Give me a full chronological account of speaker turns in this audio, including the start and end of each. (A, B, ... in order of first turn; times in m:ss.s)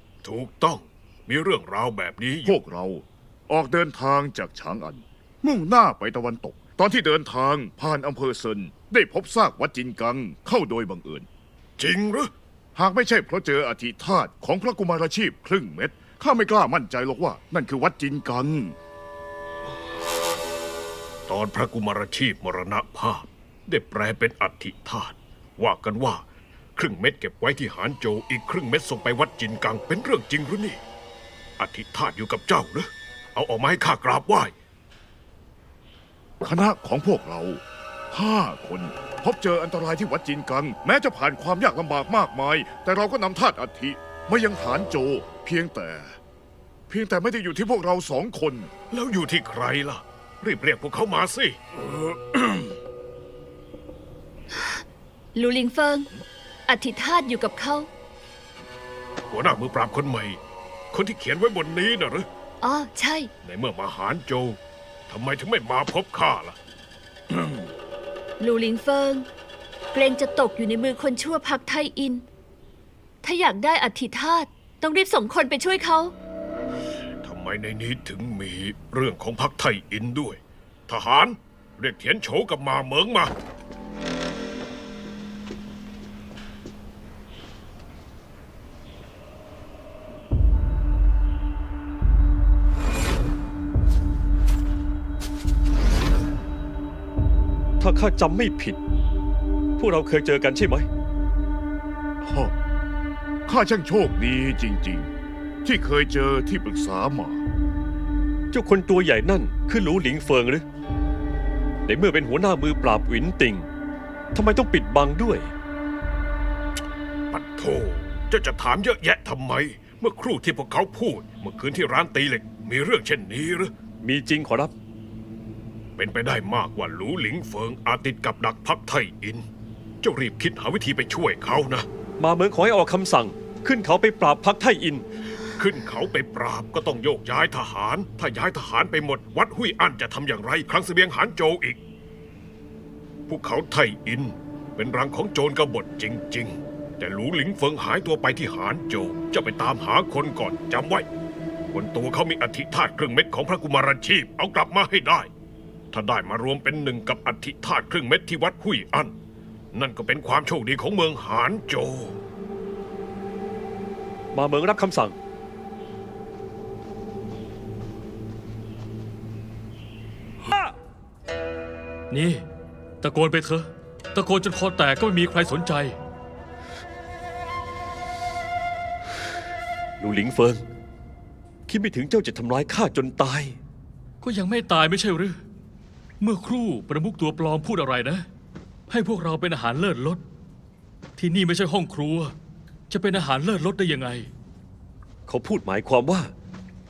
0:00.2-0:02.6 A
0:02.4-0:11.3 B
0:11.8-0:12.3 A
0:12.8-0:18.8 B
0:21.3-0:26.2 A
0:26.8-0:30.8 A
0:31.6-0:34.5 A
0:36.4-0:46.2 B
0:46.9-0:48.7 B
0:48.9-0:52.7 A
0:54.5-0:56.1 C
0:56.7-0:57.9 C
0:59.3-1:00.4 A
1:00.9-1:02.3 A
1:02.6-1:03.3 C
1:03.4-1:06.6 A
1:08.4-1:09.3 C
1:09.9-1:12.2 C
1:13.2-1:16.1 C
1:17.2-1:23.3 A
1:37.8-1:38.8 D
1:39.8-1:40.9 D
1:42.2-1:42.5 B
1:43.5-1:45.1 B
1:45.6-1:47.4 B
1:48.5-1:50.6 D
1:51.9-1:53.7 D
1:54.3-1:55.5 D
1:57.3-2:03.7 A
2:04.0-2:04.7 D
2:06.0-2:09.5 A
2:10.0-2:11.9 A
2:12.2-2:15.0 D
2:15.6-2:21.8 A
2:23.3-2:31.1 A
2:31.7-2:35.3 A
2:35.9-2:39.2 A
2:39.7-2:42.2 A
2:44.3-2:45.2 D
2:52.1-2:52.4 E
2:53.0-2:56.0 E
3:00.0-3:00.6 D
3:01.7-3:03.6 D
3:04.2-3:05.4 E
3:06.2-3:08.2 E
3:08.9-3:10.2 E
3:11.2-3:12.4 E
3:12.9-3:14.3 E
3:15.3-3:16.3 D